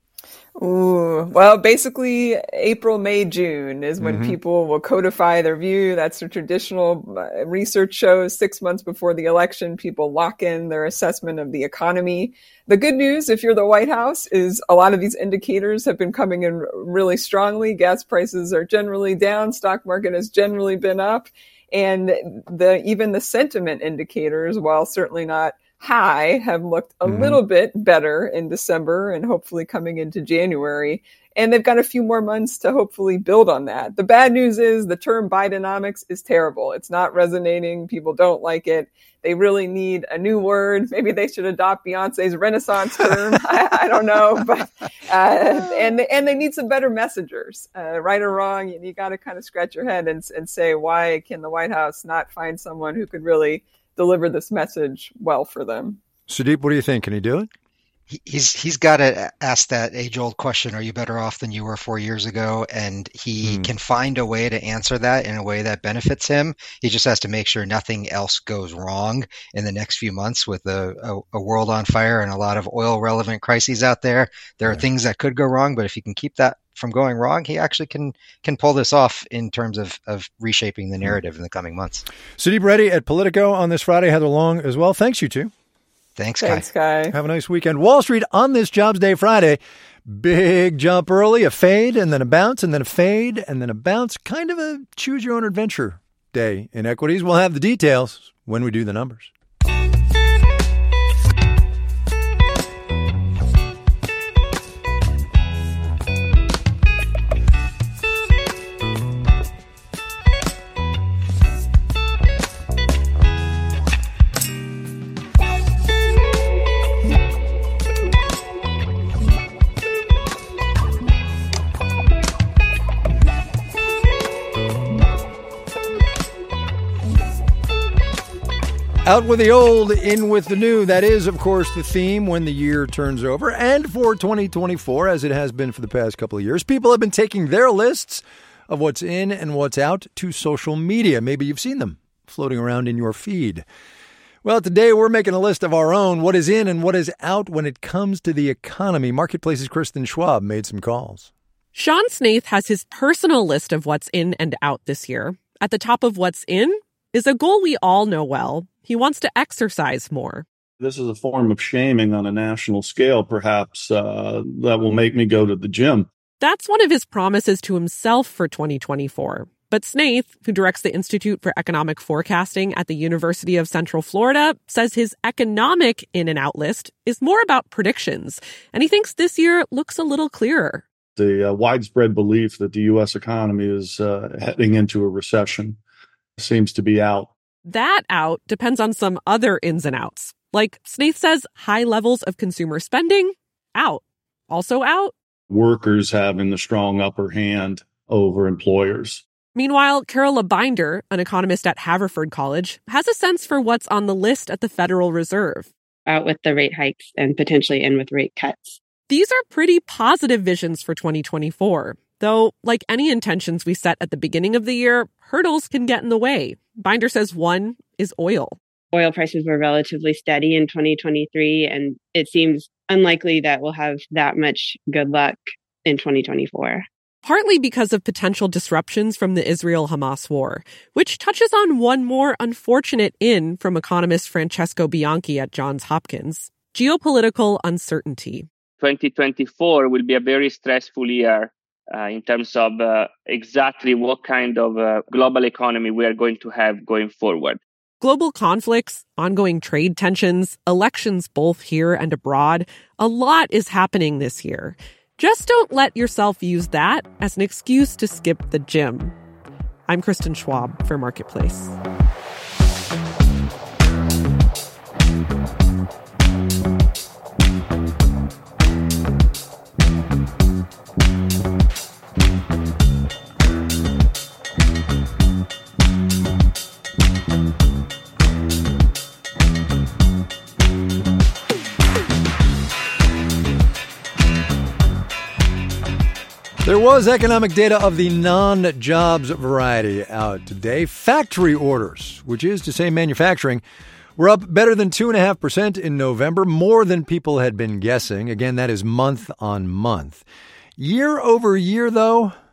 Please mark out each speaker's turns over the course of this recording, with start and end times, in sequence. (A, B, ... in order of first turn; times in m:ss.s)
0:00.6-0:56.0 A
0:04.0-0:04.4 B
0:27.0-0:27.4 B
0:56.3-0:57.5 B
0:58.1-1:22.0 C
1:03.4-1:03.7 B
1:22.4-1:25.5 B
1:26.2-1:26.6 C
1:26.4-1:27.1 A
1:27.1-1:39.3 B
2:09.0-2:23.6 B
2:24.4-2:31.3 B
2:31.7-2:40.4 D
2:40.8-2:46.1 E
2:46.4-3:00.8 D
3:01.2-3:05.8 E
3:06.4-3:07.3 E
3:07.6-3:15.1 D
3:15.5-3:19.2 E
3:19.5-3:25.7 D
3:26.1-3:28.8 F
3:29.1-3:38.6 D
3:38.9-3:46.9 F
3:47.2-3:58.5 D
3:58.8-4:07.6 G
4:08.0-4:19.1 D
4:19.9-4:21.7 D
4:46.6-4:53.6 B
4:54.2-5:00.2 B
5:00.8-5:02.3 B